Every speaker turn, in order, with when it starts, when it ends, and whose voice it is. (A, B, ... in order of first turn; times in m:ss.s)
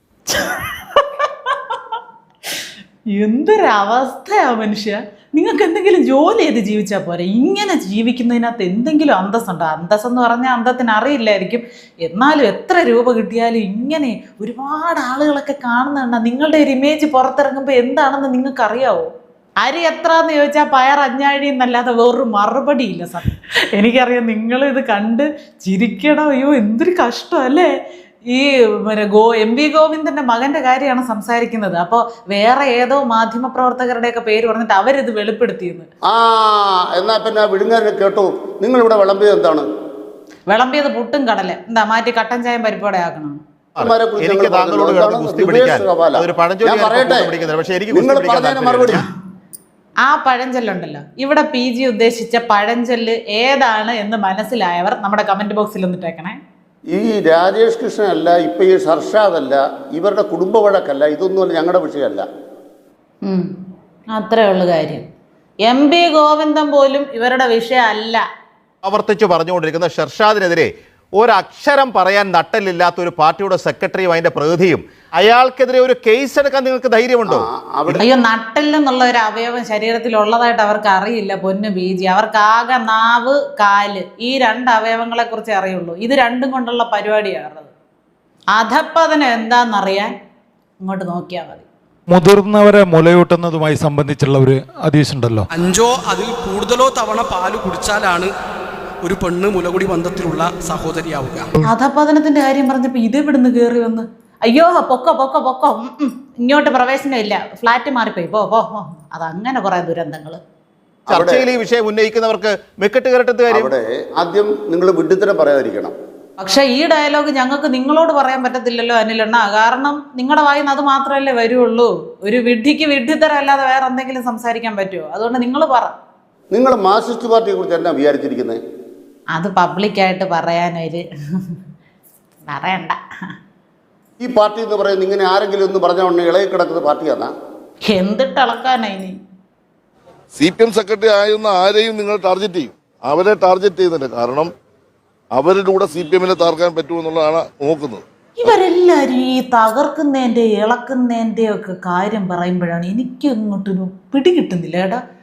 0:00.3-0:01.8 A
0:03.1-0:19.1 A
0:19.6-0:27.7 A
0:28.3-0:35.9 A
0:36.1-0:39.7 B
0:40.5-0:43.4 A
0:43.8-0:49.1 C
0:43.8-0:47.3 B
0:47.9-0:49.0 B
0:50.0-0:56.4 A
0:56.9-1:02.3 B
1:03.2-1:03.5 A
1:04.1-1:05.1 A
1:05.6-1:08.2 A
1:08.8-1:18.0 C
1:17.3-1:18.0 B
1:18.0-1:27.7 A
1:28.5-1:30.1 A
1:30.8-1:31.6 A
1:32.1-1:35.5 D
1:35.5-1:38.3 E
1:39.0-1:41.6 E
1:41.6-1:50.4 A
1:51.1-1:51.5 B
1:51.1-1:53.7 C
1:53.5-1:56.0 B
1:56.4-2:05.9 A
2:06.5-2:08.6 B
2:09.3-2:11.6 A
2:12.5-2:13.0 A
2:14.2-2:17.3 B
2:17.8-2:19.2 A
2:20.3-2:24.5 F
2:25.3-2:28.0 F
2:28.4-2:35.0 A